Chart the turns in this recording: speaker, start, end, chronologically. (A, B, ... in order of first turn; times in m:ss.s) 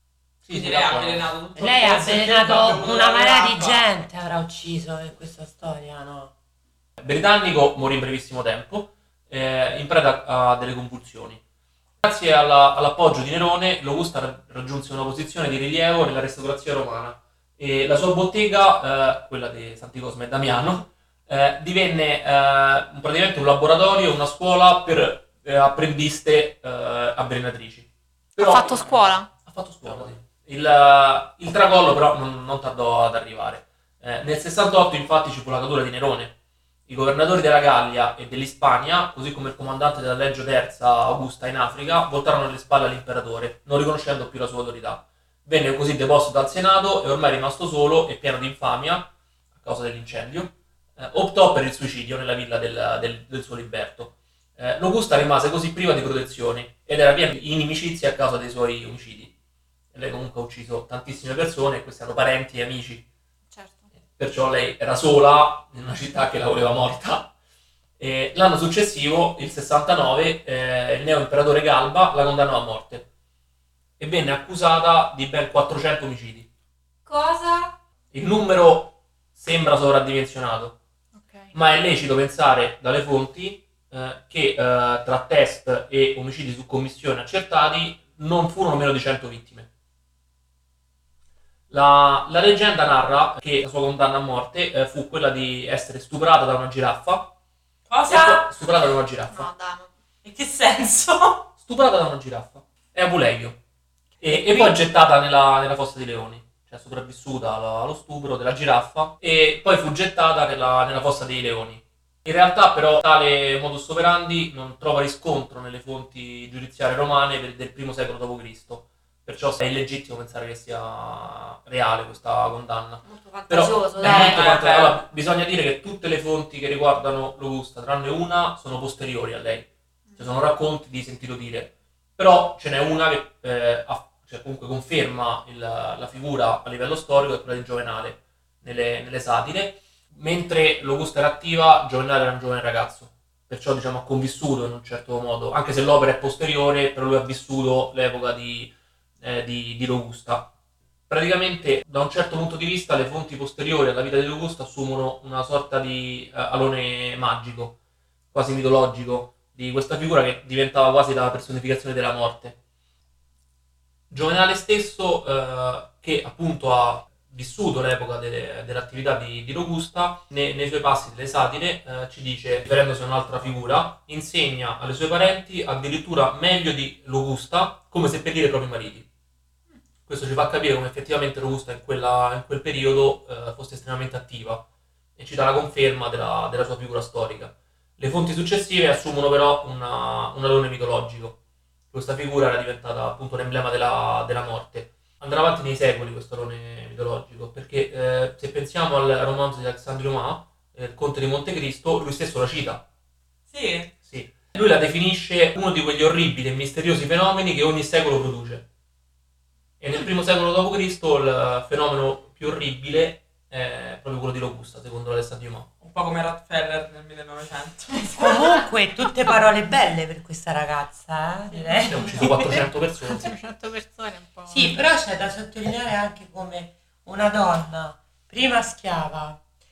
0:00.4-0:01.3 A
0:00.5-0:03.9 B
0:01.6-0:06.3 C
0:07.0-0:11.4 A
0:12.0-0:36.3 A
0:28.4-0:29.3 D
0:36.9-0:59.3 A
0:59.9-1:03.1 A
1:03.5-1:03.9 D
1:04.2-1:07.3 A
1:08.0-1:13.1 A
1:14.0-1:16.5 A
1:17.1-1:17.8 D
1:18.1-1:20.8 A
1:21.2-1:21.5 D
1:21.5-1:29.7 A
1:31.7-1:37.3 A
1:37.9-1:38.5 B
1:38.1-1:39.5 A
1:39.3-1:39.9 D
1:40.2-1:41.5 B
1:41.6-1:43.6 A
1:44.2-2:30.5 A
1:44.2-1:44.7 C
2:03.0-2:04.6 D
2:04.0-2:05.0 B
2:31.1-2:37.8 A
2:38.3-2:42.6 A
2:44.1-2:59.1 A
3:00.1-3:04.6 A
3:05.2-3:11.4 A
3:11.9-3:22.8 A
3:23.5-3:23.9 B
3:24.0-3:28.7 A
3:29.8-3:35.7 A
3:35.8-3:38.6 B
3:38.2-3:42.6 C
3:41.9-3:43.3 A
3:43.1-3:44.7 D
3:44.5-3:49.4 C